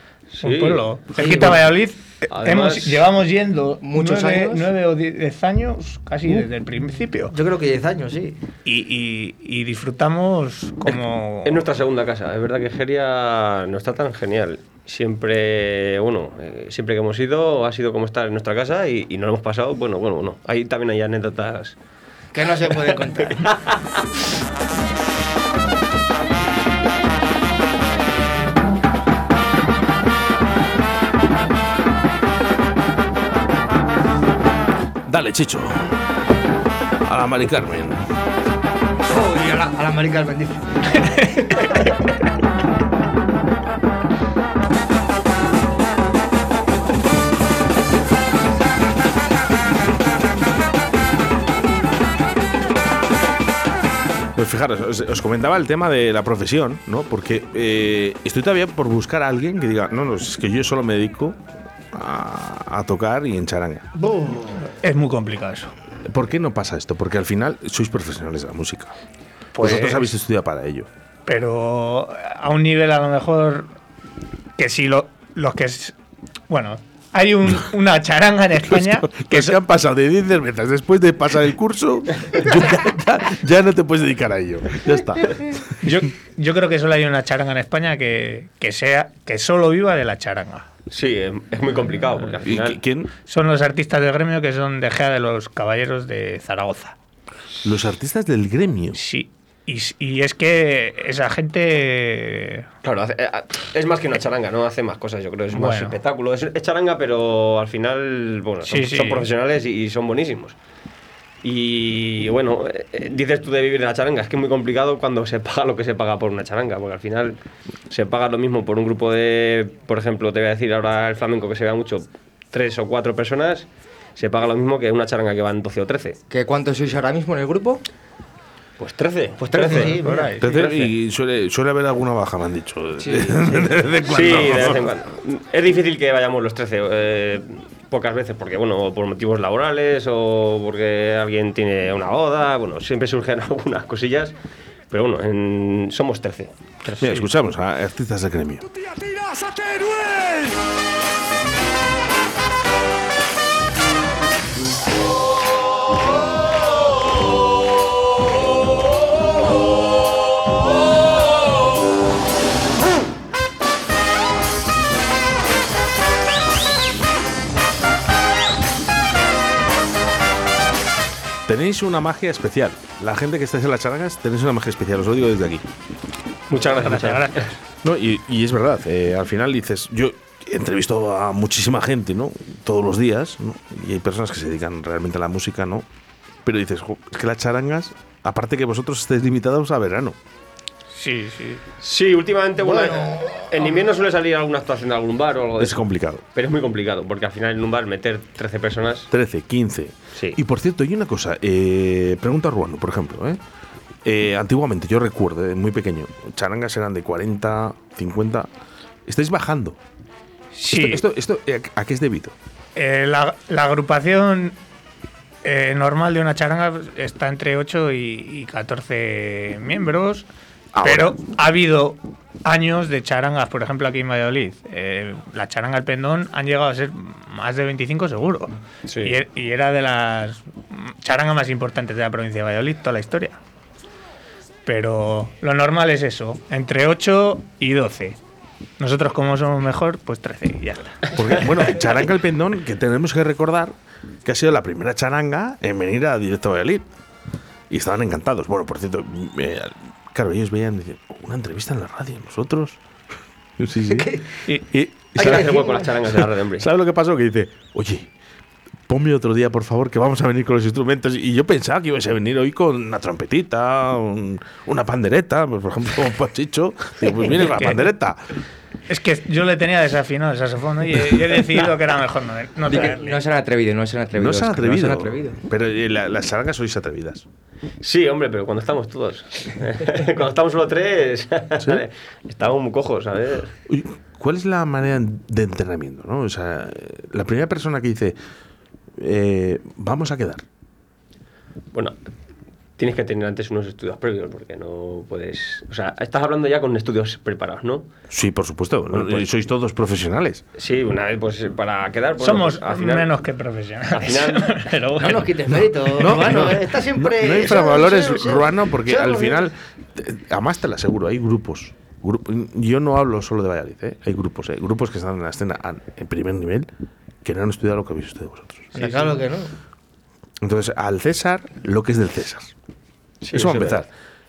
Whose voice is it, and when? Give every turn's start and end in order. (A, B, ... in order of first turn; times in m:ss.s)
0:00.3-0:00.8 A
0:00.4-0:07.4 B
0:01.2-0:01.6 C
0:02.3-0:03.0 A
0:03.8-0:04.7 C
0:07.3-0:08.4 D
0:08.7-0:11.6 B
0:10.9-0:21.8 A
0:22.3-0:23.5 D
0:22.6-0:23.8 A
0:35.1-0:35.9 E
0:37.0-0:38.0 E
0:39.0-0:41.8 D
0:54.4-1:01.4 E
1:01.9-1:03.9 E
1:04.0-1:04.7 D
1:04.8-1:05.7 B
1:06.0-1:09.0 E
1:09.6-1:10.1 B
1:09.6-1:10.9 E
1:11.3-1:13.7 B
1:14.6-1:16.0 B
1:16.5-1:19.6 B
1:18.7-1:25.7 E
1:25.8-1:30.7 B
1:30.9-1:32.8 A
1:32.4-1:33.1 E
1:33.3-1:37.0 B
1:37.6-1:39.0 E
1:38.9-1:42.7 B
1:42.8-1:50.6 A
1:45.5-1:46.0 B
1:48.7-1:49.3 B
1:51.4-1:57.4 A
1:57.9-2:06.2 A
2:06.3-2:07.8 C
2:08.8-2:10.7 A
2:09.4-2:10.3 D
2:09.7-2:10.9 B
2:10.4-2:14.9 E
2:13.0-2:13.4 C
2:14.1-2:24.4 A
2:24.9-2:27.3 A
2:27.0-2:28.7 E
2:51.5-2:55.7 E
2:56.5-2:57.5 A
2:56.6-2:57.6 B
2:57.8-3:05.9 E
3:06.4-3:10.2 E
3:10.9-3:11.6 B
3:11.8-3:19.1 A
3:12.6-3:13.6 D
3:15.6-3:16.2 E
3:19.1-3:23.4 E
3:20.1-3:20.4 A
3:24.0-3:28.5 E
3:29.1-3:29.8 E
3:30.5-3:31.0 B
3:30.7-3:32.4 E
3:32.8-3:34.6 B
3:35.4-3:40.3 B
3:40.7-3:41.2 E
3:40.8-3:53.4 B
3:48.9-3:49.2 A
3:54.7-3:58.2 B
3:58.8-4:01.2 B
4:01.1-4:06.9 E
4:07.7-4:12.8 E
4:13.6-4:18.1 E
4:13.9-4:14.3 D
4:15.2-4:16.7 A
4:15.2-4:15.9 D
4:18.9-4:28.2 E
4:27.4-4:27.9 B
4:28.9-4:33.2 B
4:32.6-4:35.4 C
4:34.1-4:37.2 E
4:37.8-4:43.5 A
4:43.7-4:48.2 E
4:49.0-4:50.4 E
4:52.8-4:57.9 A
4:58.1-5:00.4 E
4:58.9-4:59.2 A
5:00.6-5:03.1 A
5:02.2-5:06.5 B
5:03.9-5:04.6 A
5:05.0-5:09.5 D
5:05.5-5:16.7 E
5:17.2-5:18.7 E
5:18.7-5:19.2 B
5:18.7-5:19.5 D
5:20.4-5:22.5 E
5:23.2-5:23.8 A
5:23.3-5:23.9 E